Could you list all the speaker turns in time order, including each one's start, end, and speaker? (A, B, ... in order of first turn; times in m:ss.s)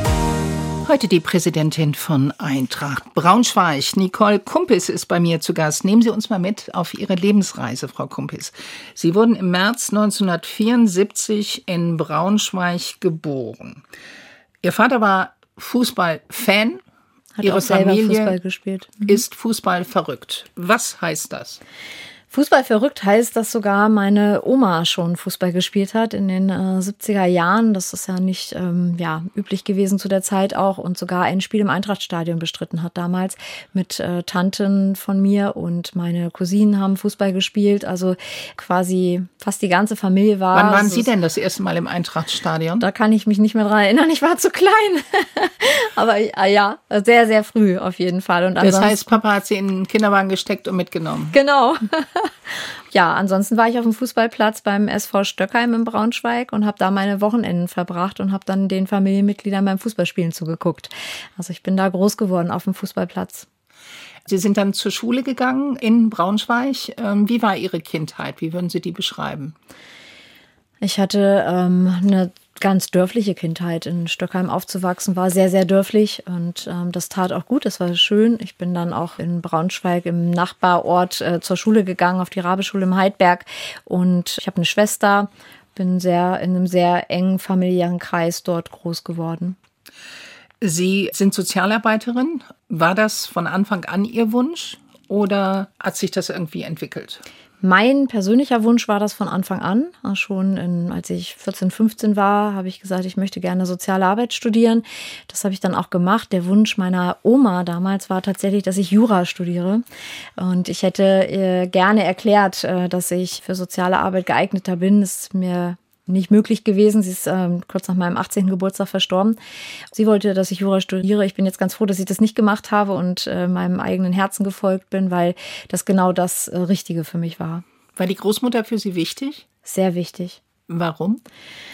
0:00.8-0:13.8 A
0:14.6-0:16.8 A
0:17.4-0:19.2 B
0:17.4-0:18.4 A
0:19.0-0:21.6 A
0:22.3-0:41.1 B
0:40.5-0:42.8 A
0:42.8-0:49.2 B
0:48.6-0:51.3 A
0:51.3-0:52.3 B
0:52.9-1:03.5 B
1:04.2-1:09.6 A
1:10.8-1:29.6 B
1:30.6-1:37.2 A
1:37.6-1:49.8 B
1:50.4-1:59.4 B
1:59.9-2:07.6 B
2:08.0-2:09.4 A
2:09.6-2:10.4 B
2:10.7-2:11.2 A